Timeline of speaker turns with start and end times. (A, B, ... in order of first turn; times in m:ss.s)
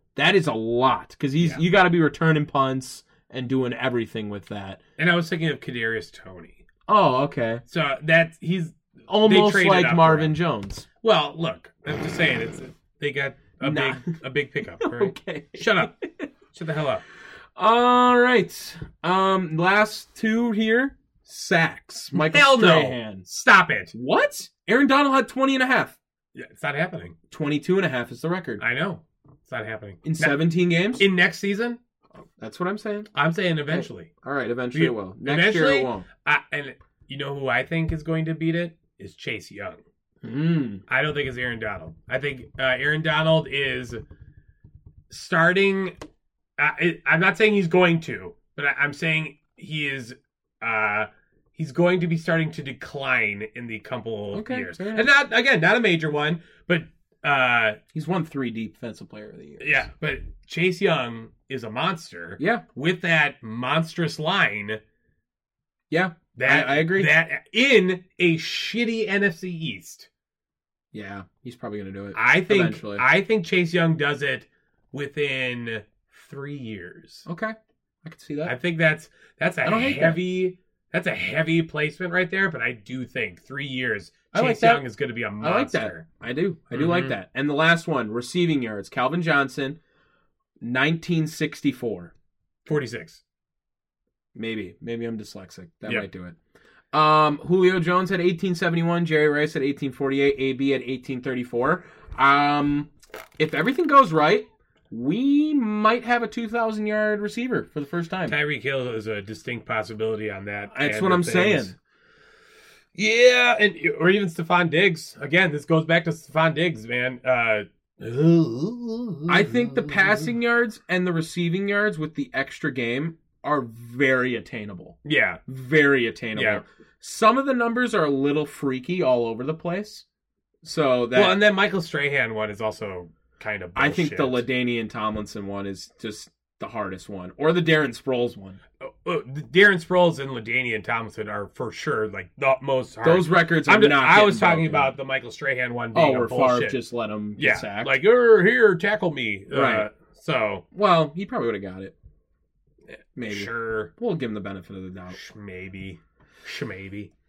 0:00.2-0:04.8 A
0:05.0-0:06.6 B
0:06.9-0:07.6 A
0:07.7-0:10.4 B
0:09.1-0:10.9 A
0:11.0-0:15.9 B
0:13.6-0:14.1 A
0:14.8-0:16.3 A
0:16.5-0:17.0 B
0:17.6-0:23.3 A
0:22.1-0:23.9 B
0:23.9-0:26.0 A
0:26.4-0:27.2 B
0:27.3-0:28.6 A
0:28.6-0:31.8 B
0:30.0-0:31.1 A
0:32.2-0:33.1 A
0:33.1-0:34.1 B
0:33.7-0:36.1 A
0:34.7-0:39.8 B
0:40.2-0:40.8 A
0:40.9-0:44.0 B
0:45.1-0:46.0 B
0:46.6-0:57.8 B
0:54.3-0:55.1 A
0:57.9-0:59.8 A
0:59.6-1:04.8 B
1:02.4-1:02.6 A
1:05.9-1:07.2 A
1:06.4-1:10.1 B
1:10.9-1:13.0 A
1:12.2-1:17.3 B
1:17.3-1:18.6 A
1:18.4-1:26.0 B
1:19.6-1:20.2 A
1:24.3-1:24.8 A
1:25.4-1:29.8 A
1:26.7-1:27.2 B
1:30.6-1:32.1 A
1:32.7-1:33.2 B
1:34.4-1:36.4 A
1:36.9-1:48.4 A
1:48.3-1:51.8 B
1:50.7-1:51.8 A
1:53.0-2:00.3 B
1:59.3-2:10.1 A
2:05.0-2:05.4 B
2:06.4-2:06.6 B
2:10.6-2:11.4 A
2:11.1-2:14.4 B
2:13.8-2:18.6 A
2:18.8-2:26.8 B
2:23.0-2:24.9 A
2:25.9-2:28.0 A
2:27.4-2:30.6 B
2:29.5-2:29.9 A
2:30.7-2:32.0 A
2:33.2-2:35.2 A
2:33.3-2:33.9 B
2:35.1-2:37.1 B